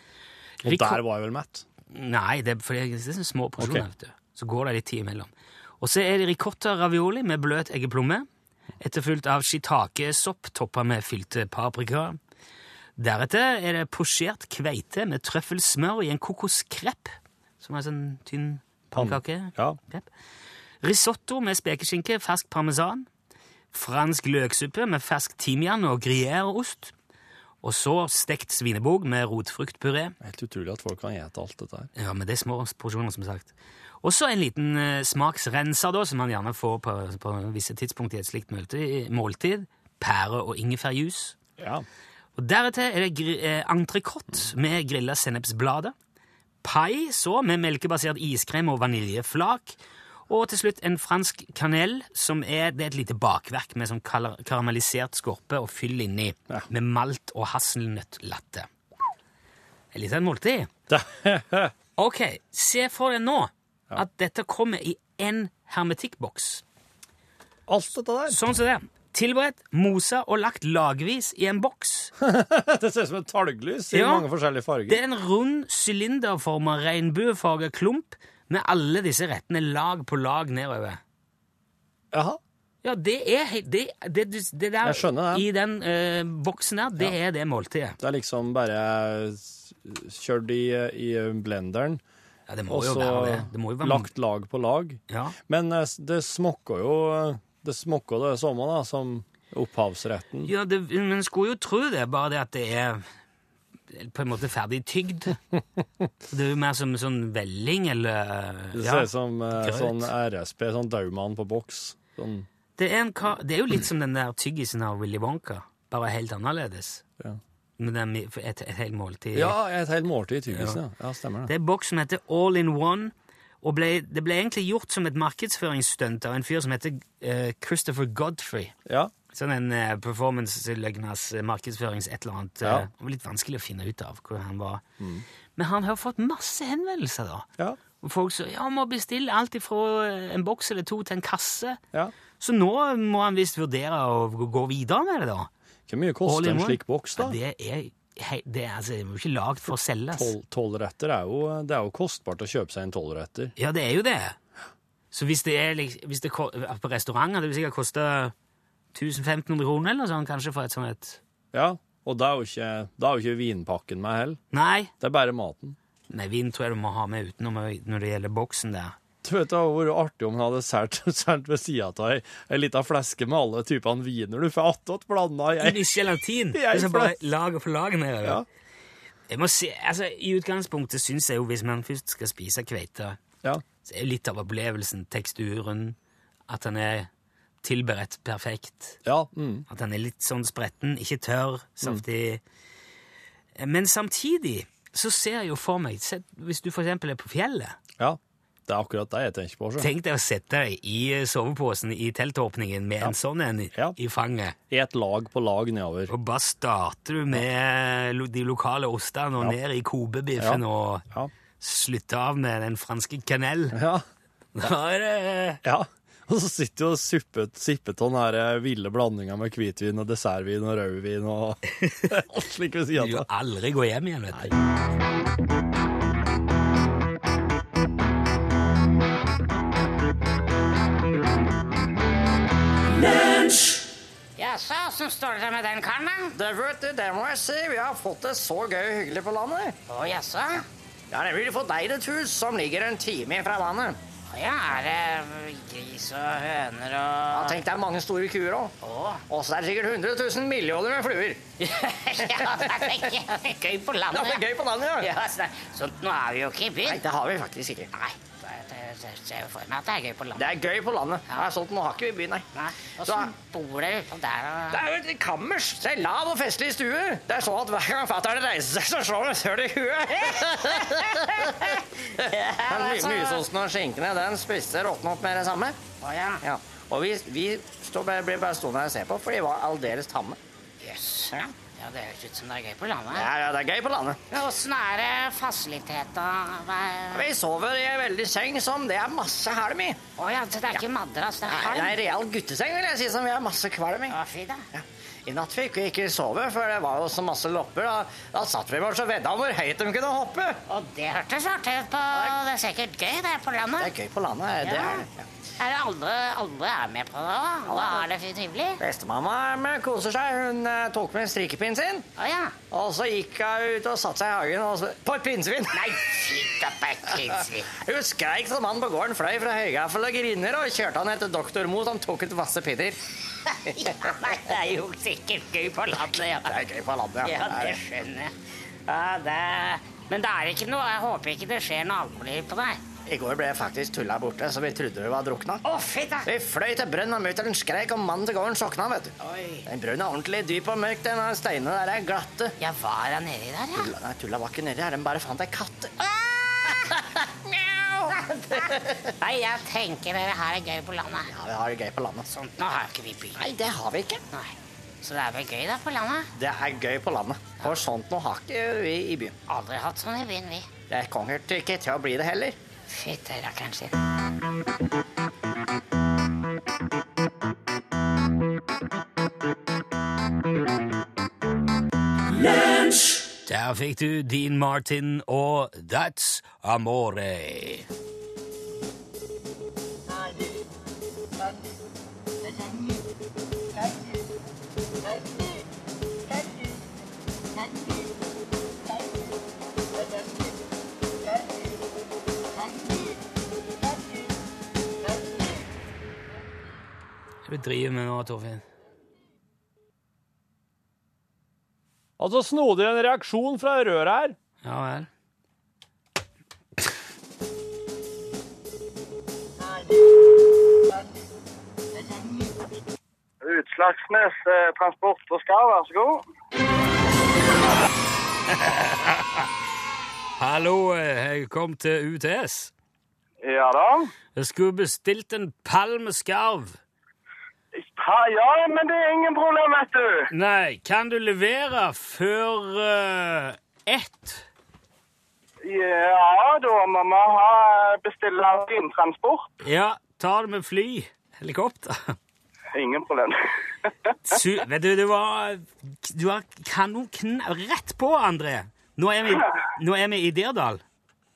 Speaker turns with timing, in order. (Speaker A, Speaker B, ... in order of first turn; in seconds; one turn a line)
Speaker A: 0.6-1.0
Speaker B: 0.6-1.6
Speaker A: 1.9-8.3
Speaker B: 3.6-3.8
Speaker A: 8.8-12.2
Speaker A: 13.0-20.1
Speaker B: 18.9-19.8
Speaker A: 20.8-23.1
Speaker A: 23.7-26.9
Speaker A: 27.6-30.1
Speaker B: 30.2-31.9
Speaker A: 31.9-41.4
Speaker B: 41.6-41.8
Speaker A: 42.4-45.9
Speaker A: 46.6-49.7
Speaker A: 50.3-58.7
Speaker A: 59.9-60.7
Speaker B: 60.9-61.7
Speaker A: 62.0-66.6
Speaker B: 67.7-68.4
Speaker A: 68.3-72.1
Speaker B: 72.2-75.0
Speaker A: 73.9-74.3
Speaker A: 74.9-81.0
Speaker B: 82.1-82.4
Speaker A: 82.8-88.0
Speaker B: 84.8-85.5
Speaker B: 88.0-92.0
Speaker A: 92.5-94.1
Speaker B: 92.7-100.5
Speaker A: 95.1-95.3
Speaker A: 100.4-103.0
Speaker A: 103.9-105.4
Speaker A: 106.3-110.1
Speaker B: 108.7-112.5
Speaker A: 112.8-117.0
Speaker A: 117.8-119.6
Speaker B: 119.3-121.5
Speaker A: 120.5-120.8
Speaker A: 121.5-128.7
Speaker B: 128.8-129.1
Speaker A: 129.3-134.8
Speaker B: 135.0-135.2
Speaker A: 135.6-137.5
Speaker A: 138.0-141.8
Speaker A: 142.4-145.5
Speaker B: 145.9-147.4
Speaker A: 146.2-150.3
Speaker B: 150.1-153.5
Speaker A: 153.6-154.4
Speaker A: 155.1-158.3
Speaker A: 158.9-161.2
Speaker B: 161.5-164.4
Speaker A: 164.5-164.9
Speaker B: 165.0-165.8
Speaker A: 166.1-168.9
Speaker B: 169.2-175.9
Speaker A: 175.6-178.4
Speaker B: 176.5-177.2
Speaker A: 179.3-183.2
Speaker A: 183.8-185.9
Speaker A: 186.5-187.1
Speaker A: 187.6-189.0
Speaker B: 189.0-189.7
Speaker A: 189.7-192.4
Speaker A: 193.6-197.8
Speaker B: 198.0-199.9
Speaker A: 199.8-204.6
Speaker B: 204.7-206.1
Speaker A: 206.1-211.0
Speaker B: 210.4-211.3
Speaker A: 211.6-213.8
Speaker B: 213.7-214.0
Speaker A: 214.5-215.6
Speaker B: 215.6-223.3
Speaker A: 221.8-222.1
Speaker A: 223.0-224.5
Speaker C: 234.4-236.3
Speaker D: 236.3-239.8
Speaker C: 239.9-240.7
Speaker D: 241.1-244.0
Speaker C: 244.3-247.6
Speaker D: 247.3-248.7
Speaker C: 248.8-249.2
Speaker D: 249.3-251.5
Speaker C: 251.6-254.4
Speaker D: 252.2-253.1
Speaker D: 254.1-255.1
Speaker C: 255.0-257.0
Speaker D: 256.8-257.9
Speaker C: 257.9-260.5
Speaker D: 260.4-262.4
Speaker C: 262.5-264.8
Speaker D: 263.0-263.3
Speaker D: 264.7-275.8
Speaker C: 270.2-271.8
Speaker C: 272.3-273.4
Speaker C: 276.0-276.4
Speaker D: 276.4-280.4
Speaker C: 280.8-283.3
Speaker D: 283.1-284.2
Speaker C: 284.3-287.3
Speaker D: 287.1-290.0
Speaker C: 290.2-292.0
Speaker D: 291.5-294.1
Speaker C: 294.1-294.6
Speaker D: 294.7-300.6
Speaker C: 300.7-303.9
Speaker D: 302.1-302.4
Speaker D: 303.8-305.3
Speaker C: 304.6-305.0
Speaker C: 305.6-308.8
Speaker D: 307.6-308.1
Speaker D: 308.8-312.1
Speaker C: 312.2-312.6
Speaker D: 312.7-315.8
Speaker C: 315.7-317.7
Speaker D: 317.7-323.0
Speaker C: 323.5-326.6
Speaker D: 323.8-324.1
Speaker D: 326.0-327.8
Speaker C: 327.2-328.3
Speaker C: 328.9-332.8
Speaker D: 333.1-335.6
Speaker C: 335.6-336.3
Speaker D: 336.2-342.5
Speaker C: 339.2-339.6
Speaker C: 342.6-343.9
Speaker D: 343.7-345.9
Speaker C: 346.0-346.7
Speaker D: 346.9-349.1
Speaker C: 348.1-351.3
Speaker D: 351.3-352.3
Speaker C: 352.3-353.4
Speaker D: 353.4-354.2
Speaker C: 354.3-356.3
Speaker D: 356.3-359.3
Speaker C: 359.5-360.7
Speaker D: 360.9-362.6
Speaker C: 362.9-363.9
Speaker A: 373.4-377.9
Speaker A: 397.4-398.6
Speaker B: 402.2-404.4
Speaker A: 404.6-405.1
Speaker E: 413.4-416.2
Speaker A: 418.5-419.5
Speaker A: 420.4-422.7
Speaker E: 423.4-424.1
Speaker A: 424.4-426.8
Speaker E: 427.8-430.3
Speaker A: 430.3-434.4
Speaker E: 435.6-439.5
Speaker A: 439.6-442.2
Speaker E: 442.7-443.4
Speaker A: 444.2-450.8